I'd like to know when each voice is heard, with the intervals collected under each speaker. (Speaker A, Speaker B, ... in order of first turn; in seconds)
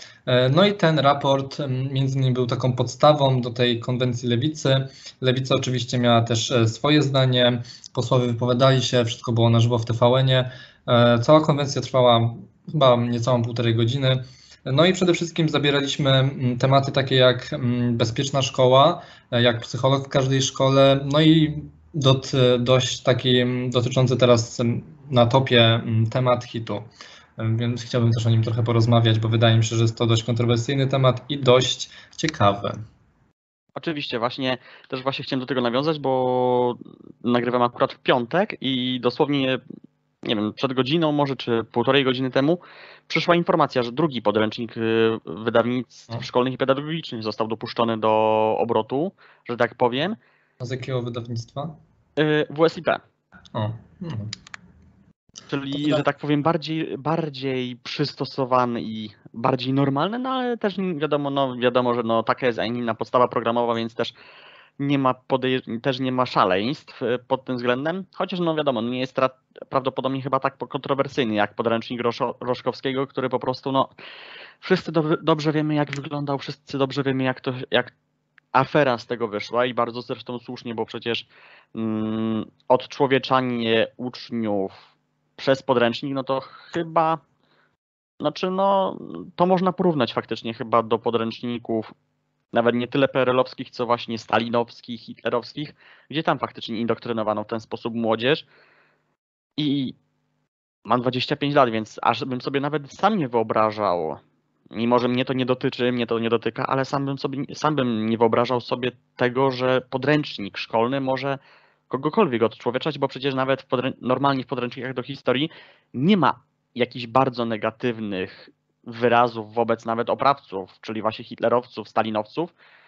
Speaker A: 0.3-32.8, 50.6-51.8, 53.5-54.3, 55.7-56.0
Speaker B: 33.8-39.6, 40.2-50.2, 52.2-53.0, 55.5-64.1, 64.8-73.9, 74.6-77.9, 78.5-84.8, 85.4-87.2, 88.2-91.9, 92.5-98.5, 99.6-100.0, 100.8-104.2, 104.7-111.4, 111.9-122.5